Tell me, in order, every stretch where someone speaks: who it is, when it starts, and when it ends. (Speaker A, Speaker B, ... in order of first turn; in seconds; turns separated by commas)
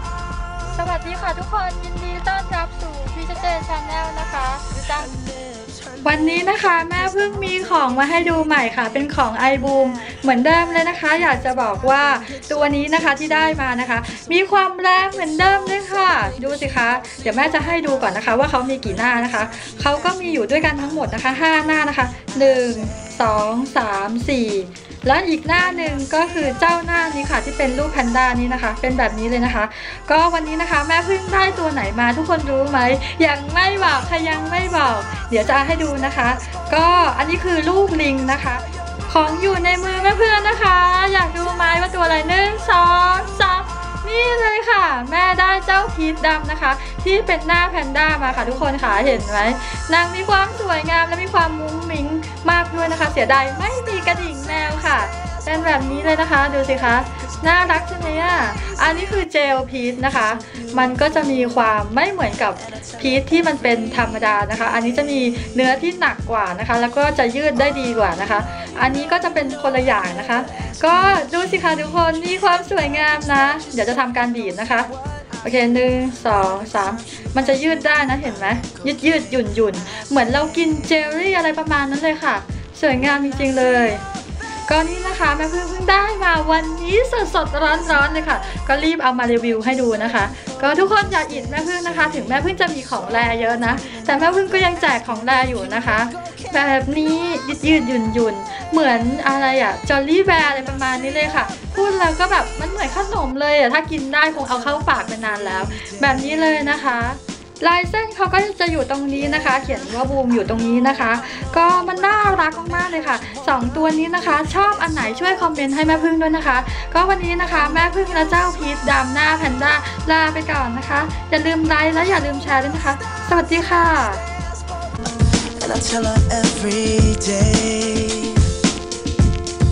Speaker A: 0.7-5.1, Speaker B: 4.8-8.9, Speaker A: 6.0-74.9, Speaker B: 11.9-13.0, Speaker B: 15.2-18.4, Speaker B: 19.2-20.5, Speaker B: 54.0-55.7, Speaker B: 57.1-59.2, Speaker B: 60.2-61.8, Speaker B: 62.6-64.9, Speaker B: 70.5-71.9, Speaker B: 73.0-75.4, Speaker A: 75.4-84.0, Speaker B: 77.2-79.2, Speaker A: 84.7-124.2, Speaker B: 90.2-96.5, Speaker B: 104.5-106.8, Speaker B: 111.3-115.5, Speaker B: 125.2-128.5